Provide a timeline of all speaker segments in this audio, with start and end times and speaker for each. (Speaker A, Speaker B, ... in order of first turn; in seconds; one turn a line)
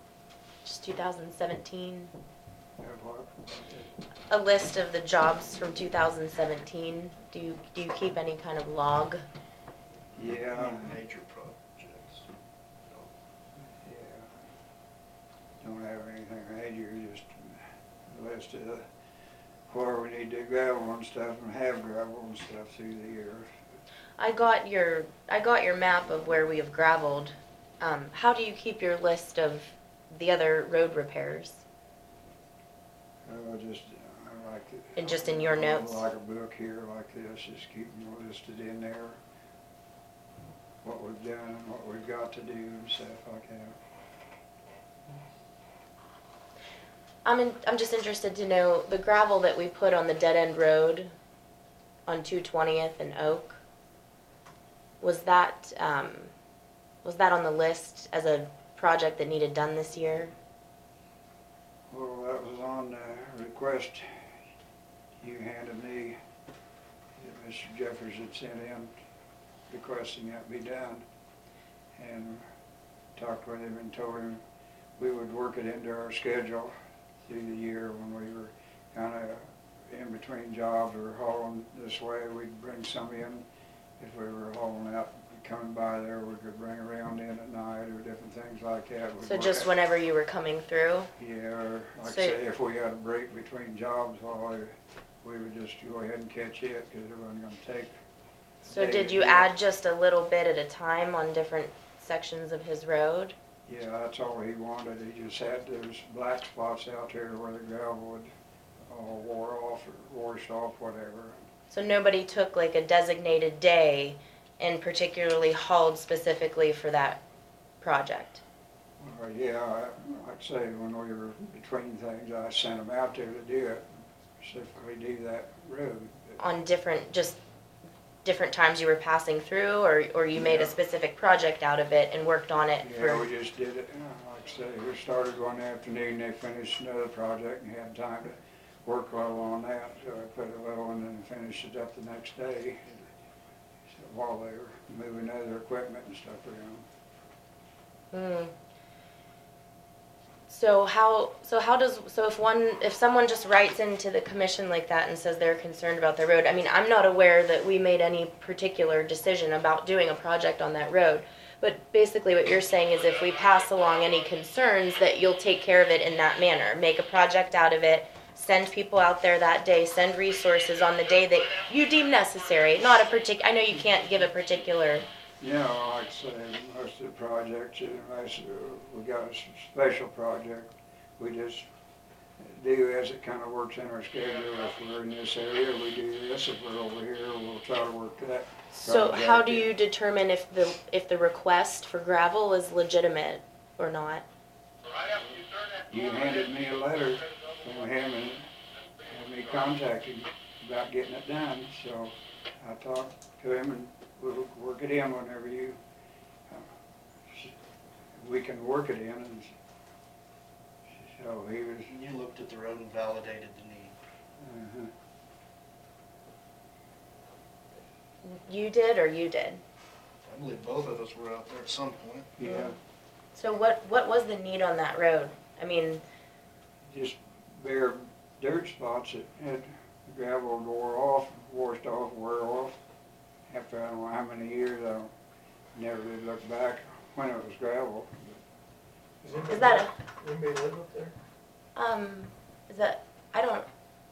Speaker A: 0.6-2.1
Speaker B: 2.8-3.8
Speaker A: 4.3-9.2
Speaker B: 10.2-11.0
Speaker C: 10.4-12.3
Speaker B: 13.6-14.3
Speaker B: 15.6-18.8
Speaker B: 19.7-23.5
Speaker A: 24.2-31.6
Speaker B: 33.2-39.2
Speaker A: 35.0-36.1
Speaker B: 40.8-43.8
Speaker A: 47.2-51.1
Speaker A: 52.1-53.6
Speaker A: 55.0-56.3
Speaker A: 57.0-60.3
Speaker B: 61.9-64.2
Speaker B: 65.2-66.2
Speaker B: 67.2-68.9
Speaker B: 69.7-71.0
Speaker B: 72.0-72.4
Speaker B: 73.2-74.4
Speaker B: 75.0-83.5
Speaker B: 84.0-89.7
Speaker A: 89.2-91.1
Speaker B: 91.2-94.7
Speaker A: 92.0-92.4
Speaker B: 95.2-97.9
Speaker B: 98.6-99.5
Speaker A: 98.7-103.3
Speaker B: 103.7-108.3
Speaker B: 108.8-111.4
Speaker A: 111.7-117.2
Speaker A: 117.8-118.4
Speaker B: 119.0-123.9
Speaker B: 124.4-126.4
Speaker A: 126.4-127.4
Speaker A: 128.2-133.3
Speaker B: 130.3-130.7
Speaker B: 132.8-143.0
Speaker B: 143.9-146.8
Speaker A: 148.1-148.5
Speaker A: 150.5-175.1
Speaker B: 175.4-181.7
Speaker B: 182.4-189.7
Speaker A: 188.8-194.2
Speaker B: 195.9-198.5
Speaker B: 199.0-205.8
Speaker B: 207.2-207.6
Speaker B: 208.2-209.5
Speaker B: 210.9-211.9
Speaker C: 211.9-213.9
Speaker B: 214.4-214.9
Speaker A: 218.2-219.6
Speaker C: 220.3-222.3
Speaker B: 222.4-222.8
Speaker A: 222.4-222.8
Speaker A: 223.3-226.0
Speaker B: 226.9-232.8
Speaker B: 233.5-235.1
Speaker B: 235.8-238.4
Speaker D: 239.2-241.2
Speaker A: 239.5-239.9
Speaker A: 241.8-243.7